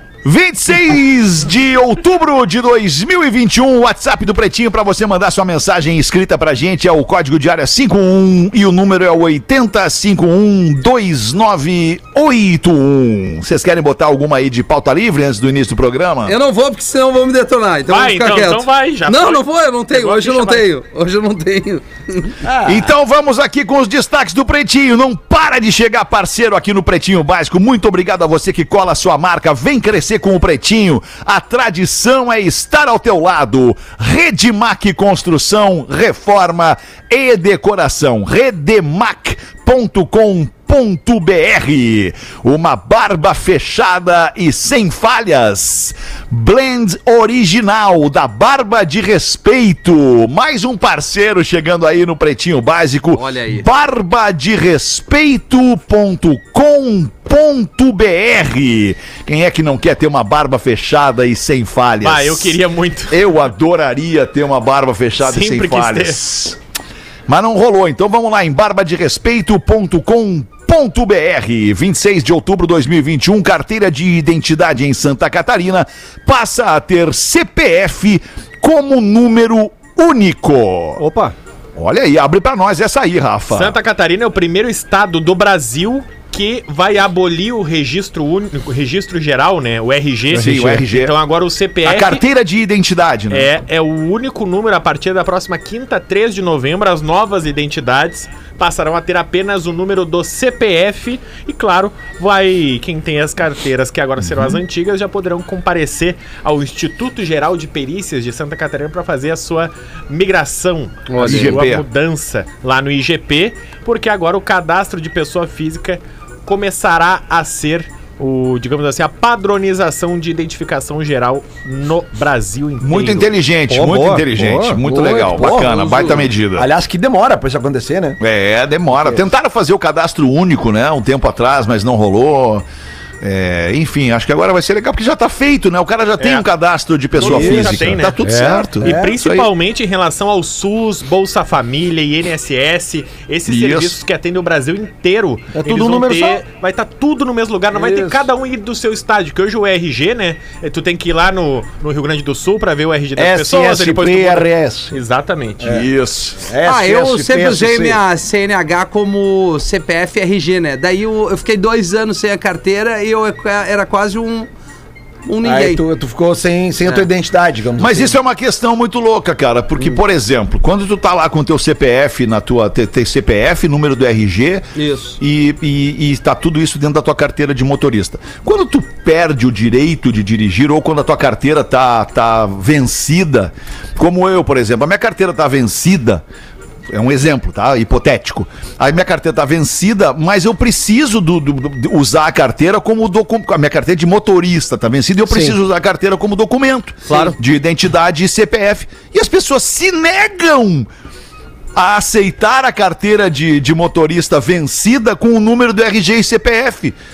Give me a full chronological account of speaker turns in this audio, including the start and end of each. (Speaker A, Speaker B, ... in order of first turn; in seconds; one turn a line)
Speaker A: 0.2-16.3
Speaker B: 16.2-22.4
Speaker C: 17.9-20.7
Speaker D: 22.4-22.9
Speaker A: 22.6-62.6
Speaker B: 53.1-53.7
Speaker C: 62.0-63.3
Speaker A: 63.1-66.6
Speaker C: 65.2-66.2
Speaker A: 67.3-81.0
Speaker E: 81.0-81.3
Speaker A: 81.8-83.8
Speaker C: 83.5-92.2
Speaker E: 90.3-90.7
Speaker A: 90.3-91.1
Speaker A: 91.8-93.5
Speaker C: 93.3-123.3
Speaker A: 104.2-104.6
Speaker B: 111.1-111.6
Speaker A: 111.2-111.8
Speaker A: 122.8-126.7
Speaker E: 123.7-125.0
Speaker D: 124.8-128.2
Speaker B: 125.7-126.1
Speaker A: 128.2-132.7
Speaker A: 133.2-139.5
Speaker C: 136.2-136.4
Speaker C: 137.1-138.2
Speaker D: 137.2-137.9
Speaker E: 138.2-138.7
Speaker D: 138.8-139.1
Speaker C: 138.8-155.6
Speaker A: 143.4-144.0
Speaker D: 145.5-146.4
Speaker D: 147.7-148.2
Speaker D: 153.2-154.9
Speaker A: 155.6-156.4
Speaker D: 155.6-158.0
Speaker B: 156.6-164.5
Speaker B: 165.2-165.8
Speaker D: 165.4-168.2
Speaker A: 167.8-174.7
Speaker B: 174.7-175.2
Speaker A: 175.2-186.2
Speaker A: 186.9-200.9
Speaker E: 195.3-195.6
Speaker E: 197.1-197.3
Speaker A: 201.8-206.9